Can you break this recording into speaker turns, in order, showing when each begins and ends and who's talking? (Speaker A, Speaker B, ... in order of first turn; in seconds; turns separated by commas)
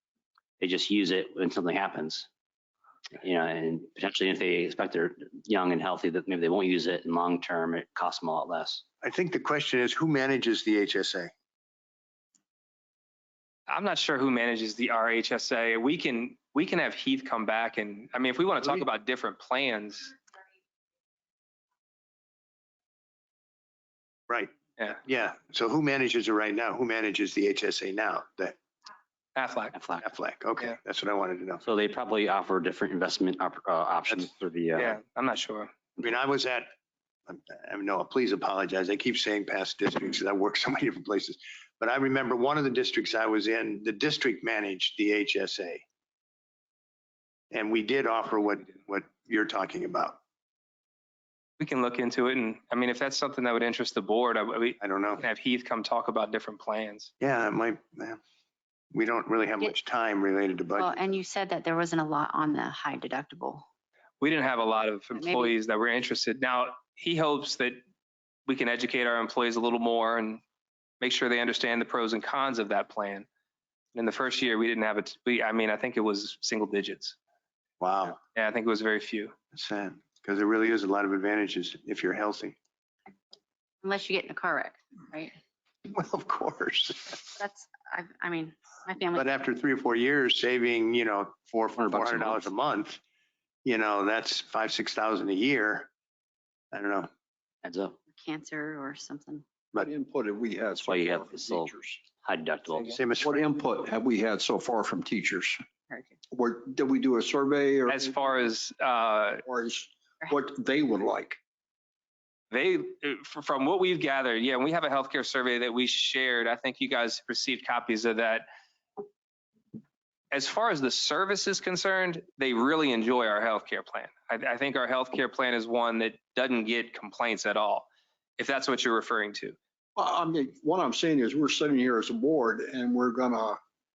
Speaker A: 0.6-2.3, Speaker A: 3.2-8.8, Speaker B: 9.0-11.3, Speaker C: 13.7-20.1, Speaker B: 24.3-28.6, Speaker C: 29.3-29.7, Speaker A: 29.7-30.0, Speaker B: 30.0-31.6, Speaker A: 31.6-35.0, Speaker C: 34.8-35.7, Speaker B: 36.0-36.7, Speaker B: 37.3-45.8, Speaker B: 47.5-50.2, Speaker C: 51.6-57.1, Speaker B: 54.8-55.2, Speaker B: 57.2-58.2, Speaker B: 58.9-61.0, Speaker D: 60.8-63.6, Speaker C: 64.2-67.8, Speaker D: 65.1-65.5, Speaker C: 68.5-70.4, Speaker C: 71.0-73.2, Speaker C: 73.9-77.2, Speaker B: 77.8-78.2, Speaker C: 78.3-79.3, Speaker B: 79.5-82.5, Speaker D: 83.8-85.3, Speaker B: 85.9-87.3, Speaker D: 87.4-89.3, Speaker B: 89.1-93.0, Speaker A: 91.8-92.5, Speaker B: 93.6-95.9, Speaker B: 96.7-97.1, Speaker A: 97.6-98.0, Speaker D: 98.1-99.4, Speaker E: 99.7-102.0, Speaker A: 100.8-103.0, Speaker B: 102.9-103.4, Speaker E: 103.2-105.6, Speaker E: 106.3-108.3, Speaker C: 107.9-109.4, Speaker E: 109.4-111.4, Speaker C: 112.5-118.5, Speaker C: 120.3-129.6, Speaker E: 129.9-133.6